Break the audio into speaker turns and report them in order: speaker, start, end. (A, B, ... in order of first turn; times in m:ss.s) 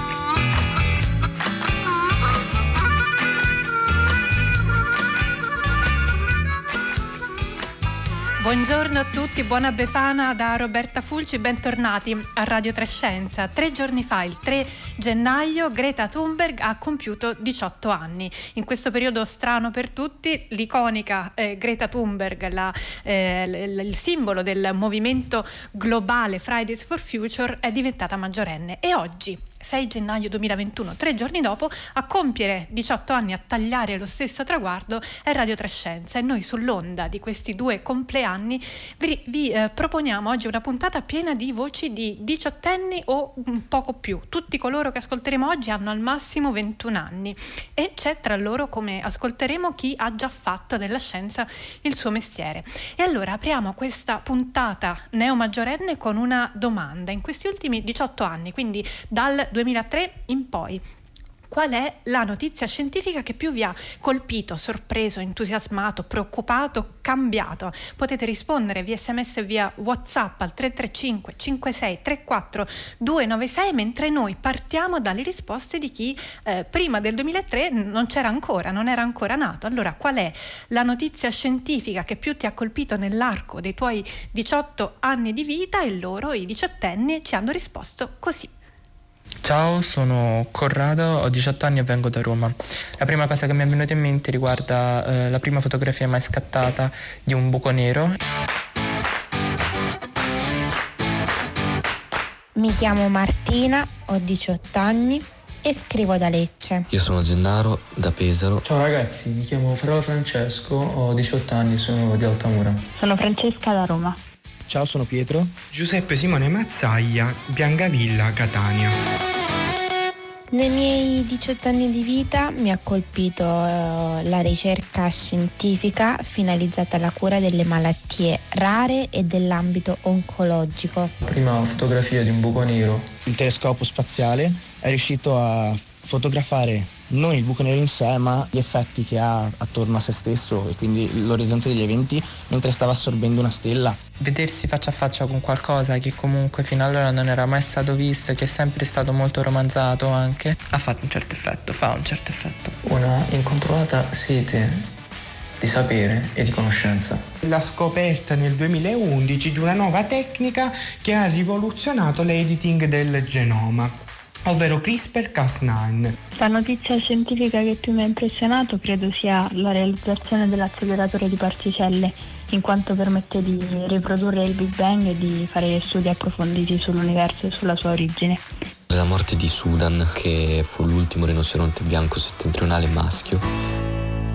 0:08.4-1:00.8 A
1:01.5-1:28.5 A
1:29.4-1:38.2 B
1:42.6-1:46.9 C
1:46.9-1:48.6 D
1:48.6-1:52.8 E
1:53.0-1:54.2 F
1:54.7-1:55.6 G
1:55.7-1:59.0 H
2:00.5-2:11.1 C
2:11.2-2:13.1 E
2:13.2-2:24.0 G
2:24.2-2:32.7 B
2:32.8-2:34.9 E
2:35.6-2:37.2 E
2:37.4-2:43.9 H
2:44.4-2:46.1 H
2:46.4-2:58.4 F
2:58.9-3:03.5 D